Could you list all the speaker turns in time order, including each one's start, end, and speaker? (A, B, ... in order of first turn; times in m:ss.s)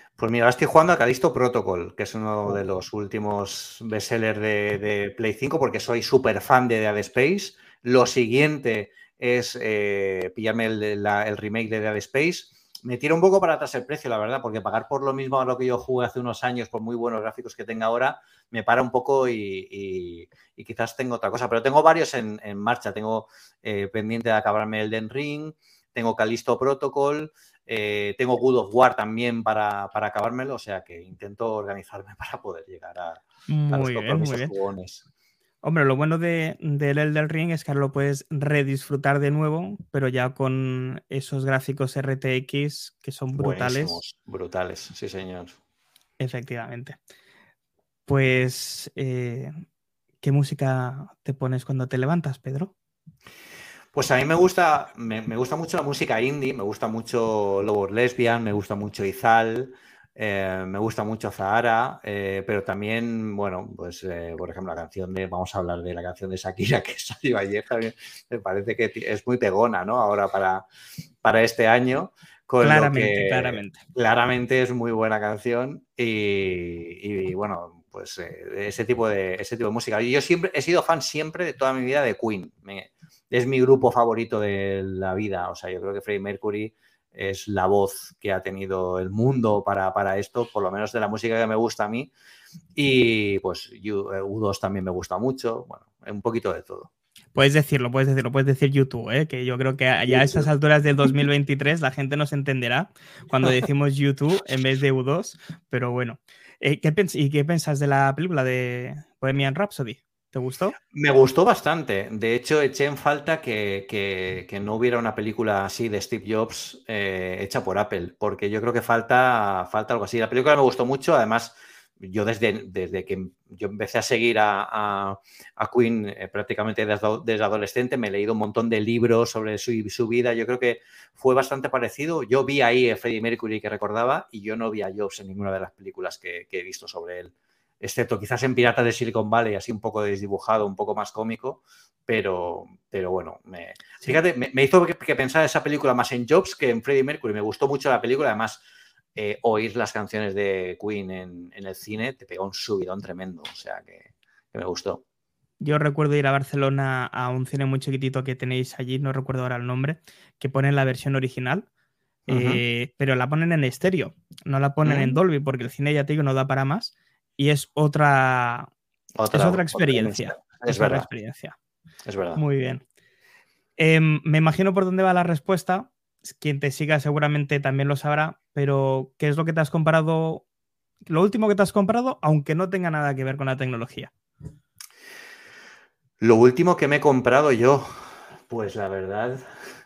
0:00.2-0:35.0 A
0:33.5-0:34.5 B
0:35.6-0:44.0 B
0:43.4-0:45.6 A
0:46.2-0:47.0 B
0:48.1-0:49.6 B
0:50.2-0:52.7 B
0:53.9-1:10.6 A
1:11.2-1:32.1 A
1:12.6-1:13.8 B
1:32.8-1:36.9 A
1:37.3-1:50.7 B
1:40.1-1:40.4 A
1:50.9-2:28.6 A
2:29.2-2:35.0 A
2:35.6-2:41.6 B
2:42.3-2:42.6 A
2:42.3-2:48.7 B
2:44.8-2:45.2 A
2:49.2-2:51.1 A
2:49.3-2:51.5 B
2:52.0-2:52.4 A
2:52.4-2:52.8 B
2:53.8-3:00.4 B
3:01.0-3:04.1 B
3:06.2-3:09.4 A